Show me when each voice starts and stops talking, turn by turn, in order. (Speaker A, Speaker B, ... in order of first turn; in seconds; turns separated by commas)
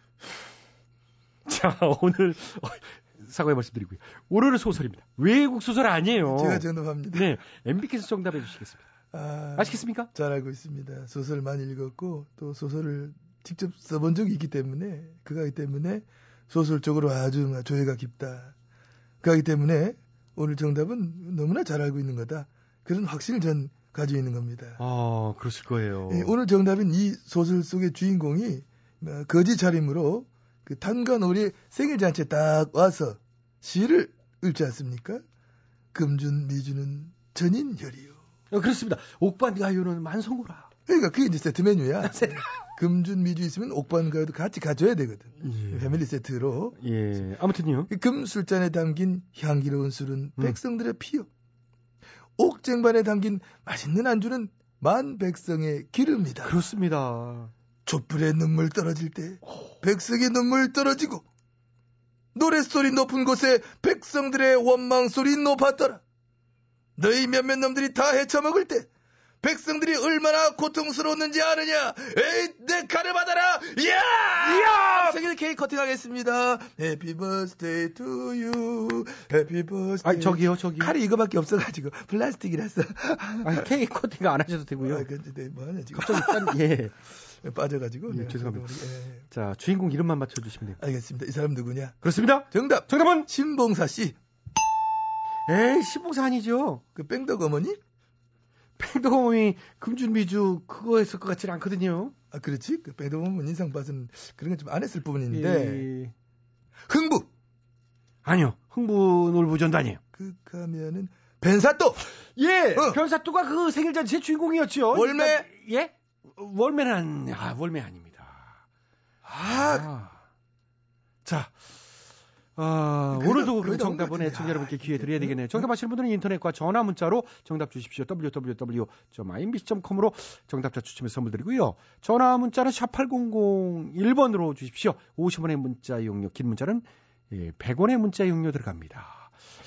Speaker A: 1.5-8.8, Speaker B: 6.2-7.4, Speaker B: 9.1-18.5, Speaker A: 9.6-10.1, Speaker B: 19.2-24.8, Speaker A: 24.8-26.3, Speaker B: 26.1-35.2, Speaker B: 35.9-38.2, Speaker A: 38.5-40.7, Speaker B: 40.9-46.8, Speaker A: 42.0-42.4, Speaker A: 45.4-46.0, Speaker A: 46.8-47.9, Speaker B: 47.9-51.3, Speaker B: 52.4-56.6, Speaker A: 56.4-57.5, Speaker B: 57.9-61.2, Speaker B: 62.3-66.0, Speaker B: 67.0-68.9, Speaker B: 69.4-83.7, Speaker A: 74.4-75.2, Speaker A: 80.0-80.9, Speaker A: 83.4-85.1, Speaker B: 84.8-86.6, Speaker A: 86.0-87.0, Speaker B: 87.4-89.2, Speaker A: 88.1-88.7, Speaker A: 89.3-90.8, Speaker B: 90.8-94.2, Speaker A: 92.0-93.3, Speaker A: 95.5-96.8, Speaker B: 96.9-97.8, Speaker A: 98.8-102.1, Speaker B: 102.3-105.9, Speaker A: 105.3-106.1, Speaker B: 106.9-107.3, Speaker A: 108.2-110.0, Speaker B: 110.1-112.0, Speaker A: 112.3-118.5, Speaker B: 112.7-113.0, Speaker B: 114.9-115.5, Speaker A: 119.2-120.2, Speaker B: 119.3-119.8, Speaker A: 121.2-121.6, Speaker A: 122.5-139.3, Speaker B: 123.1-125.7